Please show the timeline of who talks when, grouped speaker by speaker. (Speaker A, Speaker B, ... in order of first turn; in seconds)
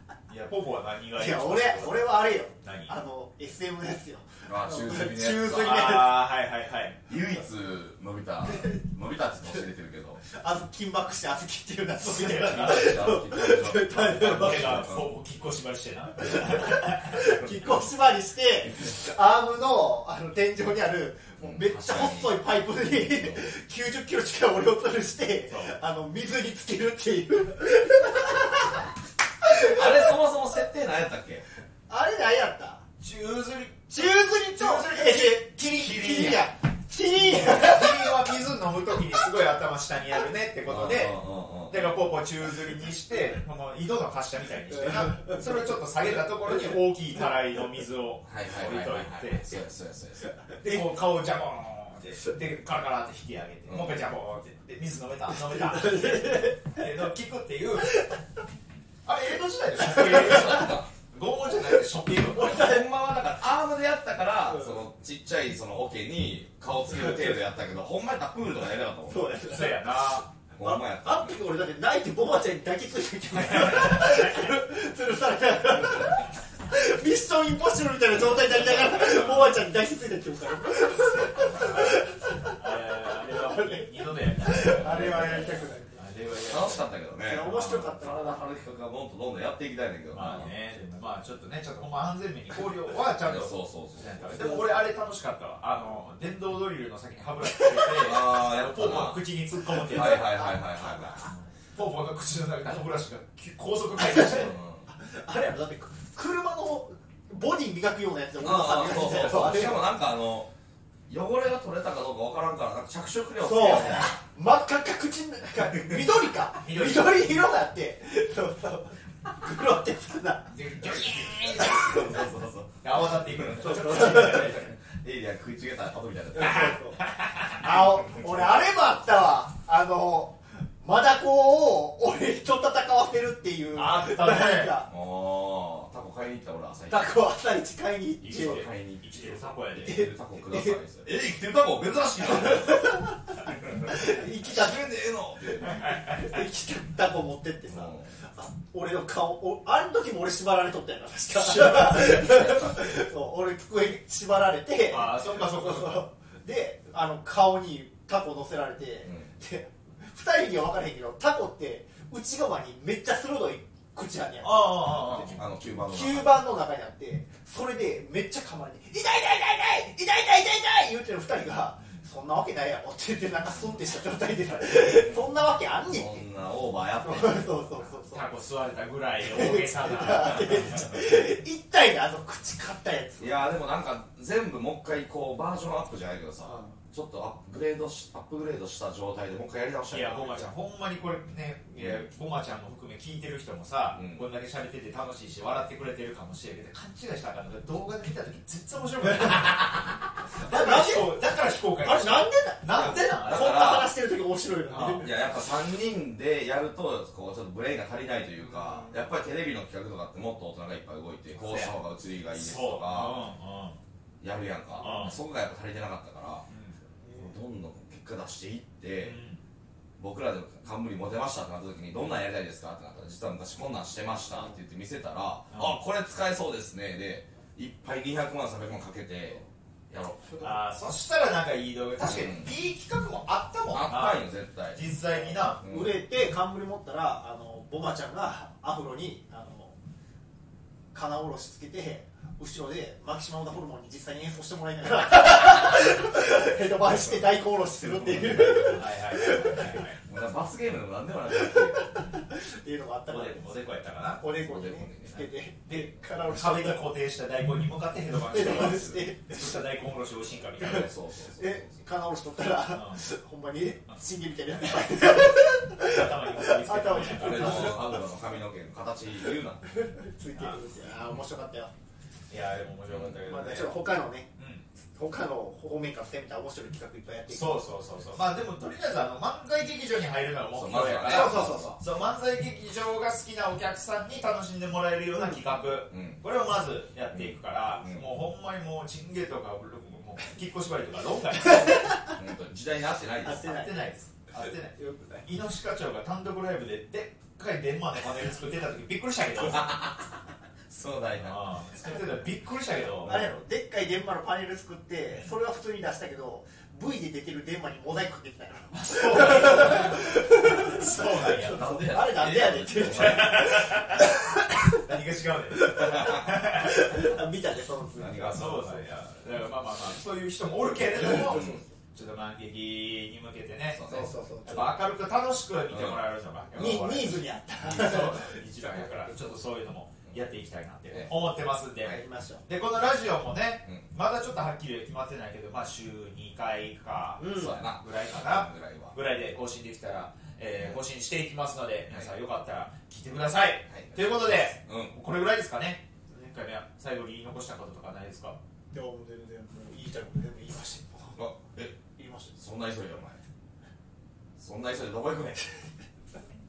Speaker A: 0.3-2.1, 2.6-3.0, 5.4-7.0, 12.0-13.0, 13.9-17.1, 25.5-25.8, 33.0-36.4, 37.2-41.2, 41.7-49.6, 50.6-58.0, 59.0-62.8, 69.5-70.3, 73.5-74.1, 78.5-79.7, 82.6-87.8, 90.1-100.4, 101.8-104.6, 109.3-109.7, 116.6-117.3, 120.5-122.2, 122.8-124.8, 127.0-127.6, 133.8-134.7, 138.3-140.1, 145.6-146.0, 154.9-156.1, 164.4-165.4, 178.1-180.9, 189.9-199.7, 200.4-203.7, 204.7-205.1, 211.4-211.7, 212.3-213.8, 214.8-215.2, 216.5-216.8, 219.0-219.4, 225.5-225.8, 230.4-235.6, 248.7-250.0, 253.1-254.2, 255.7-260.9, 262.7-263.0, 265.8-267.8, 272.3-273.8, 274.4-274.6, 277.3-292.0, 293.3-299.7, 301.2-303.2, 308.7-311.9, 312.7-316.9, 318.3-323.8, 324.5-348.4
Speaker B: 1.1-6.3, 8.4-8.8, 10.3-15.0, 16.3-28.9, 29.5-30.0, 31.9-32.8, 33.9-38.1, 55.5-56.8, 57.9-58.2, 59.9-60.6, 62.4-62.9, 64.5-64.8, 69.1-69.9, 70.6-86.0, 87.2-88.3, 97.6-97.8, 100.0-101.3, 104.0-109.9, 113.4-122.1, 123.6-124.6, 126.3-127.0, 127.5-134.9, 136.9-138.7, 139.8-140.8, 142.2-144.9, 145.9-165.2, 165.9-176.2, 177.0-178.3, 179.2-183.5, 186.4-186.8, 199.2-199.6, 200.4-201.2, 201.8-205.1, 208.4-209.0, 214.8-215.1, 217.0-217.3, 235.6-239.8, 240.9-249.8, 251.3-253.5, 254.2-256.8, 258.3-259.5, 260.6-268.0, 269.6-271.7, 273.3-274.3, 274.9-277.6, 281.0-281.8, 291.4-292.1, 293.2-293.9, 294.4-295.0, 303.1-314.8, 315.5-318.8, 320.8-321.7, 323.9-324.8, 326.6-328.4, 331.8-332.4, 337.2-337.6, 348.7-351.3, 351.9-352.4
Speaker C: 4.5-5.6, 7.1-10.2, 12.4-15.1, 21.4-22.4, 23.0-23.5, 29.6-31.4, 40.6-42.2, 48.3-50.4, 53.7-54.1, 59.9-60.9, 62.4-69.6, 70.5-71.4, 81.1-81.8, 84.8-85.5, 86.5-90.5, 93.2-94.4, 98.0-99.2, 99.7-101.2, 104.2-104.9, 108.4-110.5, 111.1-114.2, 121.0-126.8, 134.9-137.1, 138.2-142.9, 143.4-146.0, 147.7-148.1, 151.4-153.0, 159.1-159.3, 165.1-166.4, 174.7-175.3, 175.9-177.9, 183.2-190.5, 191.8-192.0, 193.9-194.2, 202.8-203.9, 205.0-213.2, 214.2-216.5, 217.1-219.2, 220.0-230.6, 232.0-232.5, 233.7-236.0, 248.0-248.7, 250.0-251.9, 254.2-255.3, 258.3-259.0, 260.6-261.8, 267.0-269.6, 272.9-273.3, 280.5-281.8, 285.9-286.2, 287.1-288.1, 292.1-293.5, 299.4-300.0, 300.7-301.5, 303.0-303.3, 309.6-309.9, 311.5-313.5, 318.0-318.6, 321.1-321.6, 323.7-324.1, 325.7-326.0, 337.3-339.0, 343.7-344.9, 351.2-351.8, 352.4-353.2, 354.4-355.4